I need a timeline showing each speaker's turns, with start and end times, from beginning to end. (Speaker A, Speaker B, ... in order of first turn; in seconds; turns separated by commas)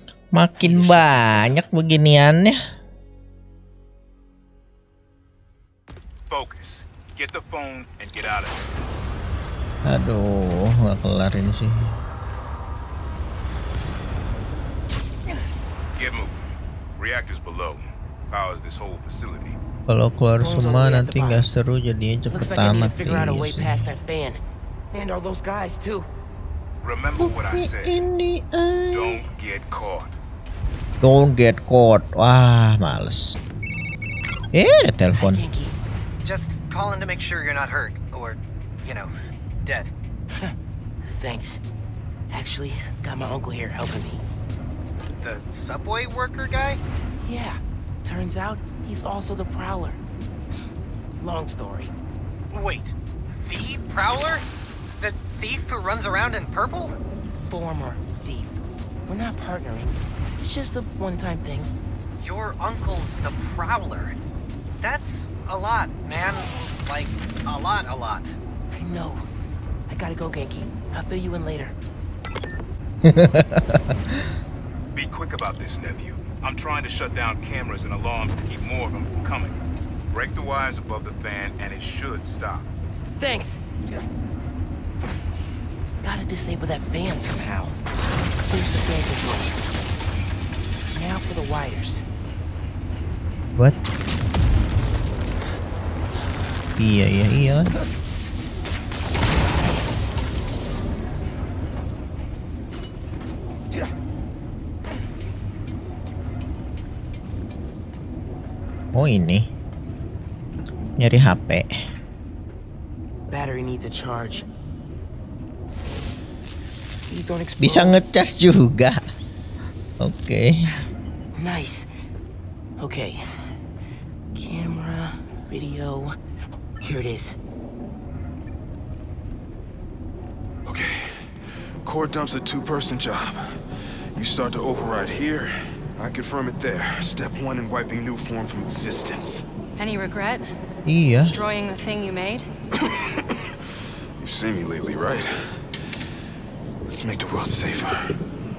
Speaker A: 0.3-2.6, Speaker B: 0.6-1.6, Speaker C: 6.3-8.7, Speaker A: 9.8-12.0, Speaker C: 15.9-19.6, Speaker A: 19.9-23.9, Speaker B: 20.4-21.5, Speaker B: 22.3-24.4, Speaker B: 24.9-26.1, Speaker C: 26.8-28.0, Speaker A: 27.2-29.2, Speaker C: 28.9-30.2, Speaker A: 31.0-33.4, Speaker A: 34.5-35.4, Speaker B: 35.2-35.8, Speaker D: 36.2-39.1, Speaker D: 39.6-39.9, Speaker B: 40.4-41.6, Speaker B: 42.3-44.2, Speaker D: 45.2-46.8, Speaker B: 47.2-50.0, Speaker B: 51.2-51.9, Speaker D: 52.5-54.5, Speaker D: 55.0-57.0, Speaker B: 57.4-61.7, Speaker D: 62.2-64.2, Speaker D: 64.8-68.4, Speaker B: 68.7-69.2, Speaker B: 69.9-71.8, Speaker A: 73.0-74.2, Speaker C: 74.9-79.6, Speaker C: 80.1-82.7, Speaker B: 83.2-84.0, Speaker B: 86.0-87.8, Speaker B: 88.5-89.6, Speaker B: 90.9-92.0, Speaker A: 96.8-97.7, Speaker B: 99.4-100.0, Speaker A: 108.9-109.5, Speaker A: 111.0-111.7, Speaker B: 113.3-114.5, Speaker B: 117.1-118.0, Speaker A: 117.6-119.0, Speaker A: 120.0-120.8, Speaker B: 121.3-121.9, Speaker B: 122.8-123.2, Speaker B: 124.3-126.1, Speaker B: 126.8-127.3, Speaker E: 130.7-133.6, Speaker E: 134.2-139.4, Speaker F: 139.8-140.5, Speaker A: 140.8-141.4, Speaker F: 141.2-142.5, Speaker E: 142.8-143.5, Speaker E: 144.2-145.4, Speaker E: 146.9-148.1